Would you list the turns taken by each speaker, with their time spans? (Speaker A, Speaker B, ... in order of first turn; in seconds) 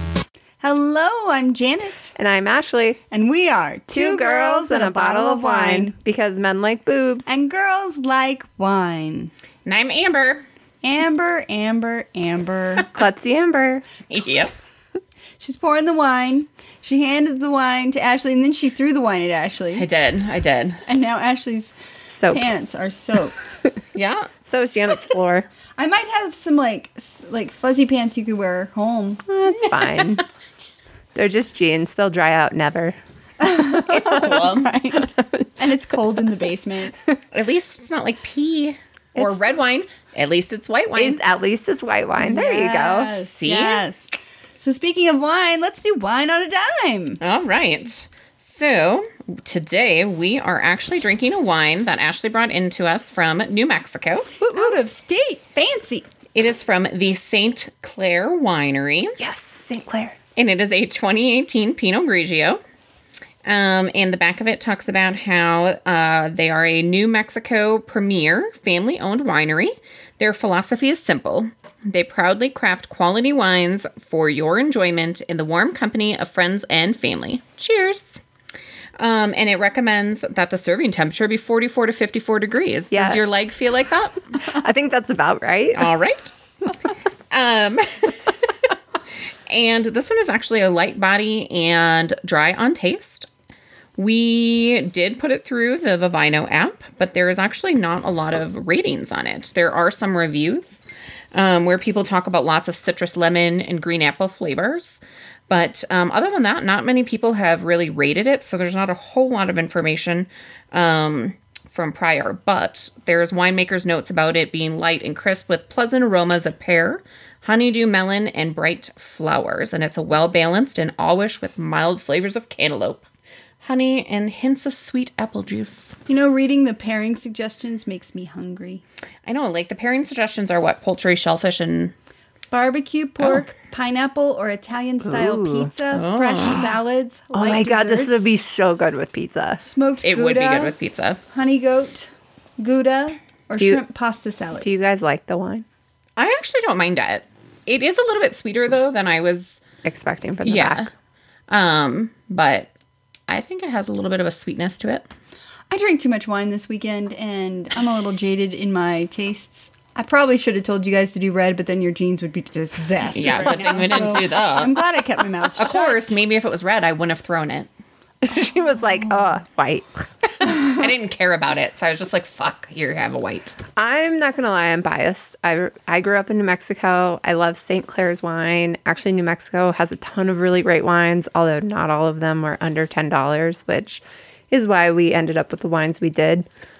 Speaker A: 0.6-2.1, 3.1-5.9, 7.3-9.3, 10.8-12.9, 15.4-19.9, 20.9-21.7, 22.3-23.6, 25.8-29.3, 33.4-36.9, 42.2-47.2, 54.4-56.0, 126.1-128.8, 132.5-138.2, 139.6-140.7, 141.3-144.7, 155.7-166.2
Speaker B: 2.1-3.0, 3.9-7.3, 12.9-13.9, 22.1-22.5, 24.4-25.5, 29.3-30.2, 31.1-33.0, 39.1-39.5, 41.0-43.2, 59.2-60.2, 82.9-83.2, 84.4-85.9, 135.0-135.7, 137.3-139.6, 144.6-145.6, 149.8-150.9, 168.2-170.5, 173.8-186.5
Speaker C: 9.6-10.4, 14.1-14.7, 19.7-20.8, 23.9-24.3, 33.7-34.7, 37.3-41.2, 43.3-43.8, 47.2-54.4, 56.3-59.2, 60.4-62.6, 63.4-78.2, 79.0-84.3, 85.7-86.3, 86.8-88.1, 89.5-93.3, 94.0-123.0, 123.6-126.0, 129.2-131.9, 135.9-136.7, 140.0-141.2, 146.2-149.6, 150.4-150.9, 151.5-152.7, 153.3-155.1, 163.1-164.8, 165.5-167.7, 170.4-173.6